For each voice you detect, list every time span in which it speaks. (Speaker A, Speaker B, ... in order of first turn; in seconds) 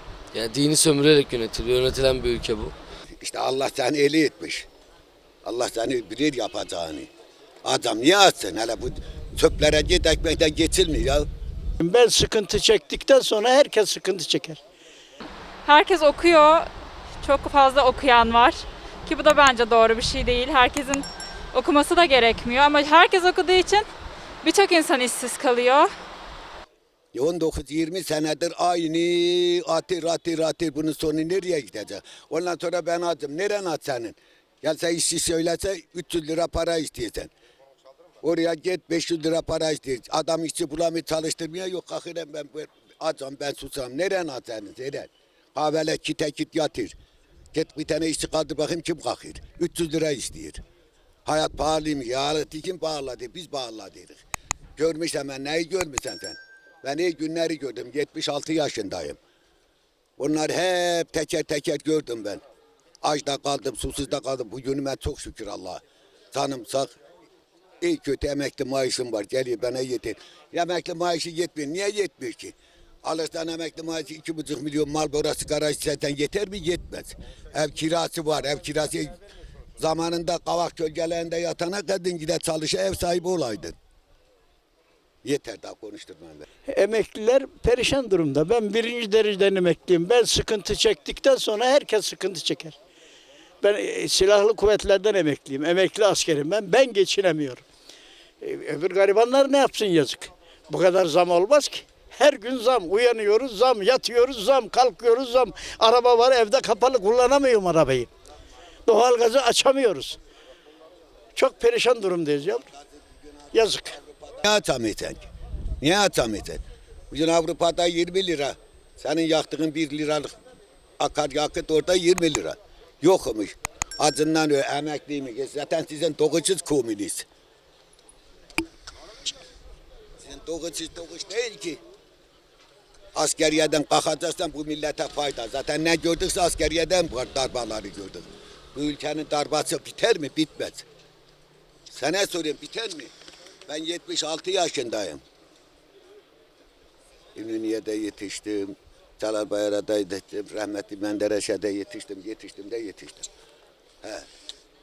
Speaker A: 0.3-2.7
Speaker B: 3.2-4.7, 5.4-7.1, 7.6-11.2, 27.1-37.3, 38.2-46.9, 47.5-50.6, 51.2-54.2, 54.8-59.2, 60.2-62.4, 63.0-65.8, 66.3-67.0, 67.8-79.2, 79.8-83.8, 85.2-86.4, 112.7-115.3, 115.8-120.3, 121.0-127.2, 130.2-131.8, 133.1-140.8, 141.9-143.1, 143.7-145.2, 147.3-153.3, 154.0-154.3
Speaker C: 11.8-14.6, 86.7-92.8, 93.6-97.6, 98.4-108.1, 108.9-110.2, 111.3-112.6, 113.5-113.9
Speaker D: 15.6-16.7, 17.2-23.9, 24.4-25.9